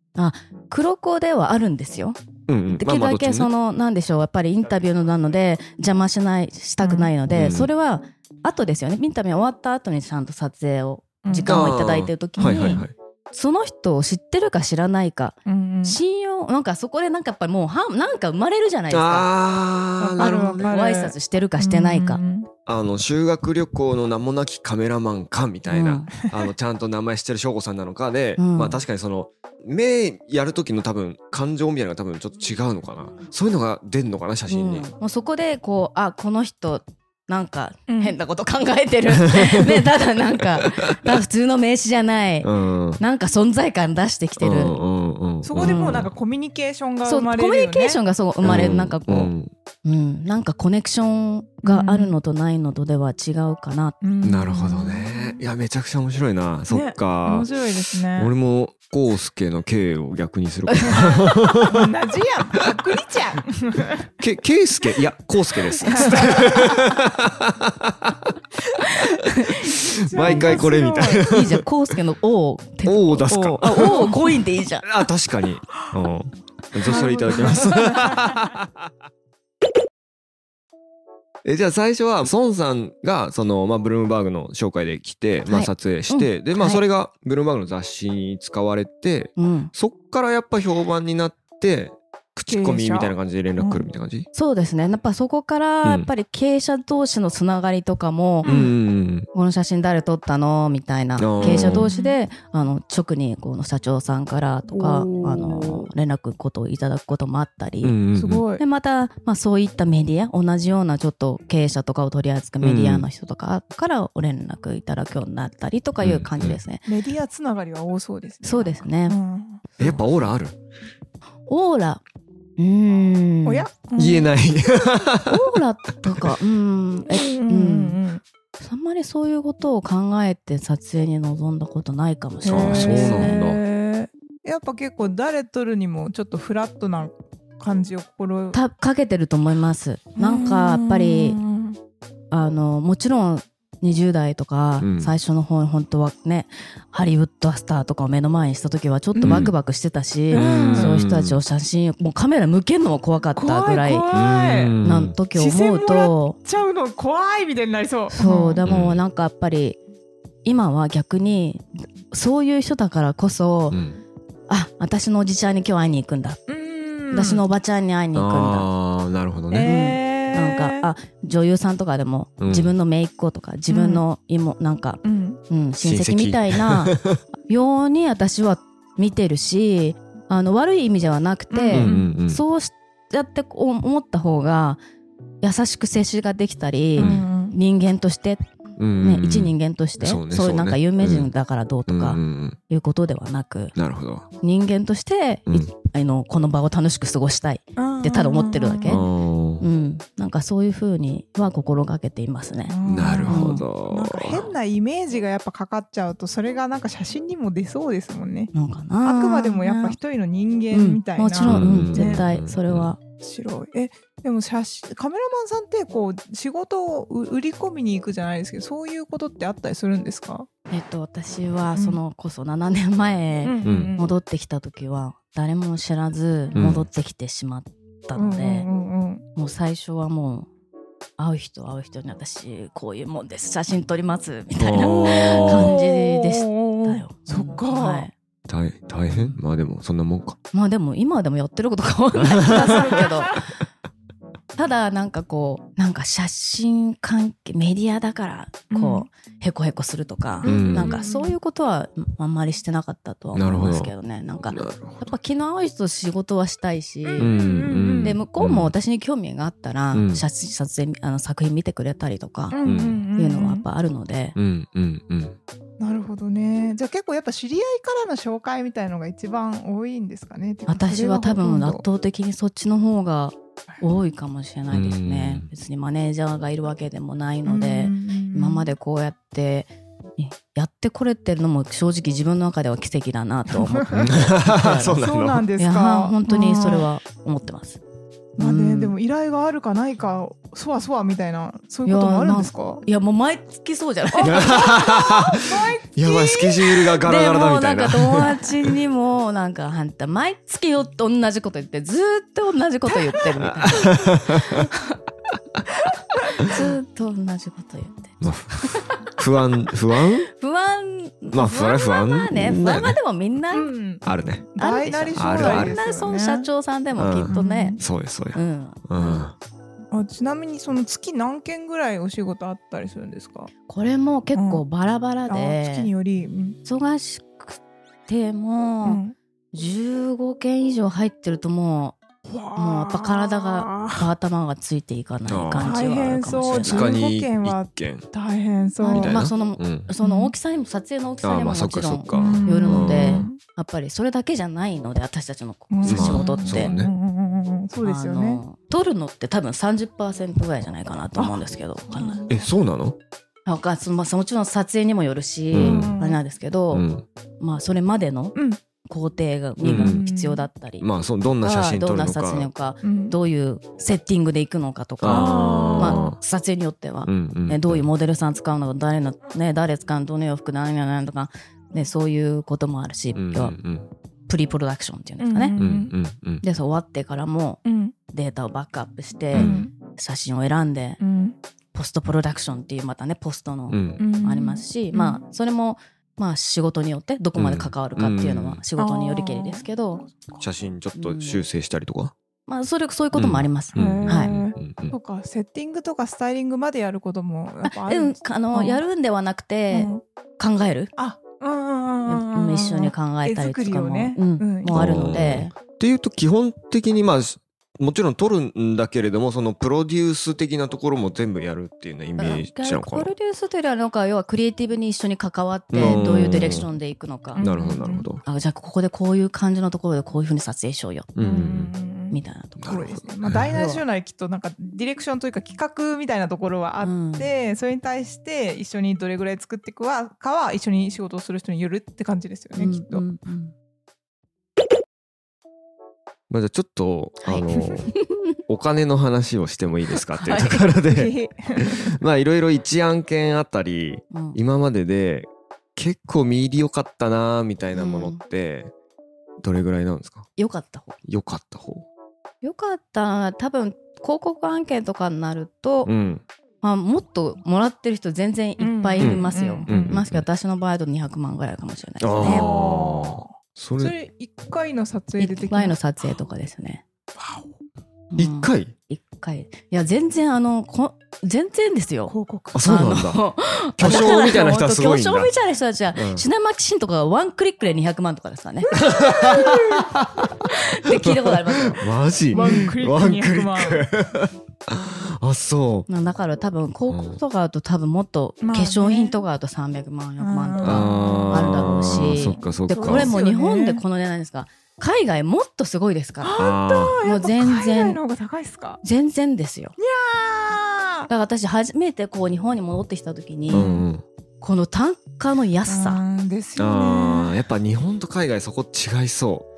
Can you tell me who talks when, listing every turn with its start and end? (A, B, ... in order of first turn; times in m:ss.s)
0:00.2-0:02.2 A
0:02.5-0:03.5 B
0:02.7-0:19.3 A
0:06.8-0:07.1 C
0:07.3-0:07.7 B
0:11.2-0:11.7 C
0:11.4-0:12.9 B
0:12.4-0:12.8 C
0:15.4-0:16.0 C
0:18.9-0:20.7 B
0:20.0-0:22.5 C
0:20.2-0:22.2 A
0:22.7-0:34.8 B
0:25.7-0:26.1 A
0:28.4-0:28.8 A
0:34.5-0:44.8 A
0:37.9-0:38.1 C
0:39.2-0:39.9 B
0:40.4-0:41.1 B
0:42.4-0:43.0 B
0:44.4-0:46.1 B
0:45.4-0:48.0 C
0:45.6-0:46.1 A
0:47.0-0:49.3 A
0:48.4-0:49.5 B
0:49.8-0:54.0 A
0:51.6-0:52.2 C
0:54.0-0:55.4 C
0:54.2-0:57.5 B
0:56.7-0:58.3 C
0:58.1-1:01.8 B
1:00.8-1:04.1 C
1:04.2-1:08.3 B
1:05.8-1:06.8 A
1:05.9-1:06.8 C
1:08.8-1:10.6 A
1:09.7-1:11.6 B
1:09.9-1:11.4 C
1:11.3-1:14.9 A
1:12.8-1:14.2 B
1:13.8-1:14.2 C
1:14.8-1:18.9 B
1:16.8-1:18.4 C
1:21.4-1:34.3 B
1:25.5-1:26.8 A
1:29.4-1:29.7 A
1:32.5-1:33.9 C
1:34.3-1:38.5 A
1:35.8-1:36.1 B
1:38.4-1:38.7 C
1:38.4-1:39.3 B
1:39.3-1:48.0 A
1:41.2-1:41.9 B
1:41.4-1:42.2 C
1:44.7-1:45.9 C
1:47.8-1:48.4 B
1:48.1-1:48.6 C
1:48.6-1:56.8 A
1:52.6-1:53.1 B
1:56.0-1:56.6 B
1:56.8-1:59.6 C
1:58.4-1:59.2 A
1:59.8-2:00.6 B
2:01.5-2:02.0 A
2:02.6-2:03.7 A
2:03.4-2:04.3 C
2:04.0-2:06.4 B
2:05.2-2:08.0 A
2:07.1-2:08.2 C
2:08.6-2:13.4 A
2:12.4-2:18.6 C
2:12.5-2:13.6 B
2:18.5-2:21.4 A
2:20.2-2:21.8 C
2:22.3-2:34.1 A
2:24.8-2:25.1 B
2:29.1-2:29.5 C
2:29.2-2:29.5 B
2:30.3-2:31.0 C
2:30.3-2:31.4 B
2:33.4-2:34.8 C
2:34.1-2:35.2 B
2:34.8-2:36.4 A
2:35.3-2:38.6 C
2:38.1-2:39.8 A
2:38.6-2:39.0 B
2:40.4-2:43.8 A
2:43.7-2:44.0 B
2:44.5-2:46.4 A
2:46.5-2:47.4 C
2:47.1-2:48.7 A
2:48.1-2:49.7 B
2:49.5-2:50.9 C
2:49.6-3:04.8 A
2:52.4-2:52.7 B
2:53.7-2:54.0 C
2:55.0-2:55.4 C
2:55.8-2:57.2 B
3:01.5-3:02.1 C
3:01.7-3:02.4 B
3:05.4-3:08.4 A
3:07.0-3:07.6 C
3:07.0-3:07.3 B
3:08.8-3:11.3 B
3:09.0-3:13.7 A
3:11.9-3:12.6 B
3:13.7-3:14.3 B
3:14.4-3:19.0 A
3:17.8-3:19.0 C
3:18.9-3:19.6 B
3:19.6-3:22.7 A
3:22.7-3:28.5 C
3:22.8-3:24.5 B
3:23.2-3:23.6 A
3:28.5-3:30.0 A
3:29.0-3:32.2 C
3:30.7-3:33.0 A
3:31.4-3:32.9 B
3:33.2-3:40.5 C
3:40.7-3:48.7 A
3:43.4-3:44.1 C
3:43.6-3:43.9 B
3:46.5-3:46.9 B
3:48.1-3:49.2 C
3:49.3-3:50.5 A
3:51.2-3:58.1 A
3:54.6-3:55.7 B
3:55.0-3:58.1 C
3:58.5-4:00.4 B
4:00.5-4:03.4 A
4:02.2-4:02.8 B
4:02.5-4:03.4 C
4:04.5-4:17.4 A
4:08.7-4:09.1 C
4:10.4-4:11.4 C
4:10.4-4:11.0 B
4:13.3-4:13.9 B
4:14.5-4:15.1 B
4:17.0-4:18.2 C
4:17.2-4:18.7 B
4:18.0-4:22.6 A
4:19.9-4:20.2 B
4:22.5-4:23.6 C
4:22.6-4:23.0 B
4:23.1-4:24.4 A
4:24.4-4:25.4 B
4:25.8-4:31.8 C
4:30.7-4:45.0 A
4:34.7-4:35.5 B
4:37.4-4:38.7 C
4:43.5-4:44.0 C
4:43.9-4:45.5 B
4:44.9-4:46.9 C
4:45.6-4:47.8 A
4:48.4-4:48.9 A
4:48.4-4:52.8 C
4:51.8-4:54.8 A
4:54.1-4:56.7 C
4:54.2-4:58.7 B
4:57.0-5:05.0 A
5:03.4-5:04.7 B
5:06.4-5:09.1 A
5:08.2-5:10.3 B
5:10.3-5:13.7 A
5:11.3-5:13.0 B
5:13.5-5:14.0 C
5:14.0-5:14.5 B
5:14.5-5:16.5 C
5:14.6-5:17.8 A
5:15.2-5:15.7 B
5:17.0-5:19.3 B
5:17.3-5:17.8 C
5:18.3-5:19.2 A
5:19.9-5:23.5 C
5:23.7-5:25.9 A
5:24.3-5:24.6 C
5:25.3-5:26.6 C
5:26.6-5:29.0 A
5:28.8-5:29.1 C
5:29.5-5:32.0 A
5:32.2-5:34.1 C
5:32.6-5:36.9 A
5:35.3-5:35.8 B
5:35.6-5:39.2 C
5:36.6-5:38.1 B
5:38.8-5:46.7 A
5:38.9-5:39.9 B
5:40.0-5:40.3 C
5:41.2-5:43.3 B
5:42.1-5:43.4 C
5:45.7-5:48.4 C
5:45.8-5:46.9 B
5:47.8-5:52.3 A
5:51.2-5:52.4 C
5:52.3-5:53.0 B
5:53.4-5:56.9 A
5:55.5-5:55.9 B
5:55.6-5:56.2 C
5:56.7-5:57.0 B
5:57.4-6:00.9 A
5:59.6-6:00.0 B
5:59.7-6:00.4 C
6:00.8-6:02.5 B
6:01.4-6:13.6 A
6:02.8-6:03.2 C
6:05.0-6:06.2 B
6:05.1-6:06.1 C
6:07.0-6:07.9 B
6:13.1-6:13.9 B
6:14.3-6:15.6 A
6:15.2-6:15.9 C
6:15.6-6:16.4 B
6:16.4-6:21.0 A
6:17.6-6:17.9 C
6:19.3-6:19.6 B
6:19.3-6:19.7 C
6:21.0-6:21.4 C
6:21.7-6:30.0 A
6:23.7-6:24.0 B
6:24.0-6:25.2 C
6:27.4-6:28.6 B
6:28.8-6:30.4 C
6:30.4-6:32.1 B
6:31.0-6:31.4 A
6:32.5-6:34.3 A
6:33.1-6:35.0 B
6:33.8-6:38.8 C
6:37.6-6:40.9 A
6:39.7-6:40.0 C
6:41.0-6:44.8 C
6:42.1-6:45.5 A
6:44.7-6:53.1 B
6:52.2-6:57.5 A
6:55.7-6:56.7 B
6:57.3-6:58.1 C
6:57.4-6:58.2 B
6:58.2-7:01.1 A
7:01.1-7:01.7 B
7:01.2-7:13.0 C
7:02.1-7:03.8 A
7:02.6-7:03.5 B
7:06.8-7:07.3 A
7:12.6-7:13.5 A
7:16.3-7:17.9 B
7:17.2-7:18.2 A
7:18.5-7:28.7 B
7:20.1-7:20.6 A
7:20.9-7:21.9 C
7:24.1-7:24.4 A
7:27.7-7:28.2 A
7:29.4-7:30.3 B
7:30.4-7:31.0 A
7:31.0-7:31.8 B
7:32.4-7:35.9 A
7:35.8-7:36.2 B
7:36.6-7:42.5 A
7:38.6-7:39.7 C
7:39.0-7:40.2 B
7:42.0-7:43.9 B
7:42.2-7:45.8 C
7:45.2-7:46.8 A
7:47.2-7:47.5 C
7:48.1-8:01.9 A
7:48.2-7:48.7 B
7:52.1-7:52.6 C
7:52.5-7:53.2 B
7:53.8-7:55.3 B
7:55.9-7:56.3 B
7:58.7-7:59.9 C
7:58.7-8:00.3 B
8:01.0-8:05.9 B
8:02.3-8:03.8 C
8:02.4-8:02.7 A
8:05.9-8:16.4 A
8:06.9-8:07.2 B
8:08.4-8:09.2 C
8:10.2-8:12.1 C
8:10.6-8:13.1 B
8:12.7-8:13.8 C
8:16.2-8:18.8 C
8:16.4-8:17.0 B
8:17.0-8:18.0 A
8:18.8-8:19.7 A
8:19.8-8:21.1 C
8:21.1-8:23.7 A
8:23.5-8:24.0 B
8:23.5-8:23.9 C
8:24.4-8:26.0 A
8:25.6-8:27.4 C
8:26.6-8:29.5 B